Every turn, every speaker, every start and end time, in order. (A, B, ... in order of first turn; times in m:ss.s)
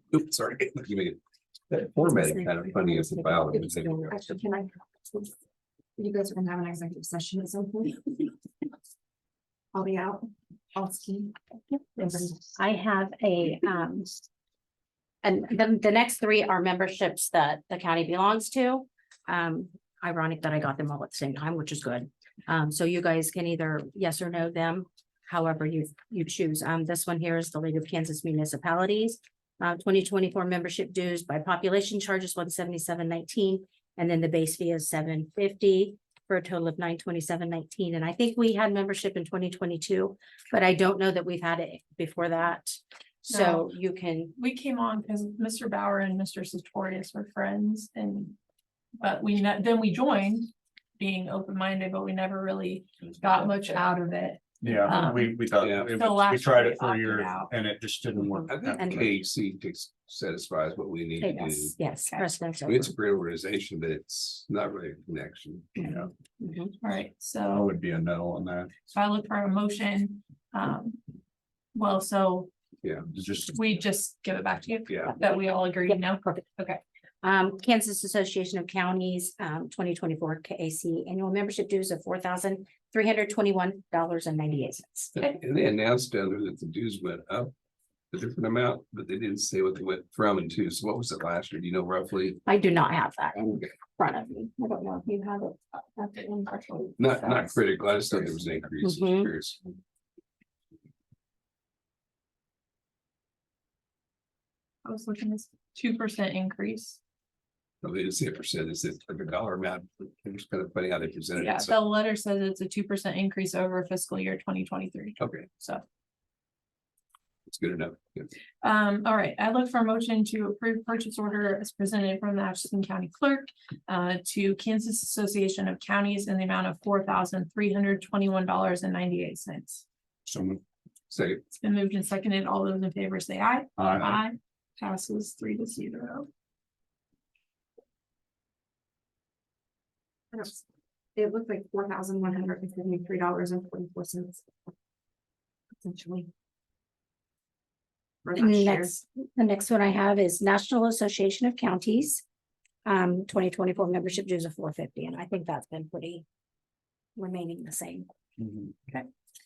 0:00.1-0:01.2 A
0:01.7-0:04.4 A
0:02.0-0:04.1 B
0:03.5-0:05.3 C
0:06.0-0:08.3 C
0:09.7-0:11.4 C
0:12.0-0:12.4 C
0:12.0-0:14.2 B
0:15.2-0:44.4 B
0:43.3-0:43.7 D
0:44.4-0:48.3 D
0:49.0-0:55.4 D
0:54.6-0:59.1 E
0:55.6-0:56.0 A
0:55.9-0:57.5 D
0:58.2-0:59.2 B
0:58.5-1:01.8 A
1:01.2-1:02.9 B
1:02.6-1:05.8 A
1:05.8-1:06.7 B
1:05.8-1:06.1 E
1:06.8-1:07.7 D
1:07.5-1:08.7 E
1:08.9-1:11.0 D
1:11.7-1:12.5 D
1:12.8-1:13.1 A
1:13.1-1:13.8 E
1:13.5-1:16.8 D
1:14.9-1:15.2 A
1:17.2-1:25.2 B
1:25.2-1:27.5 A
1:28.1-1:32.4 A
1:32.4-1:37.5 B
1:37.0-1:39.7 A
1:38.8-1:39.3 B
1:44.8-1:47.0 D
1:47.8-1:51.8 A
1:51.4-1:55.8 D
1:55.2-1:55.5 A
1:57.5-1:58.3 A
1:58.6-2:09.8 D
2:10.3-2:10.6 E
2:11.1-2:11.4 A
2:11.6-2:16.3 D
2:13.8-2:14.2 E
2:20.3-2:20.6 C
2:21.2-2:24.5 C
2:25.8-2:26.3 C
2:28.2-2:28.9 C
2:28.4-2:32.2 B
2:32.8-2:36.2 B
2:37.2-2:38.1 B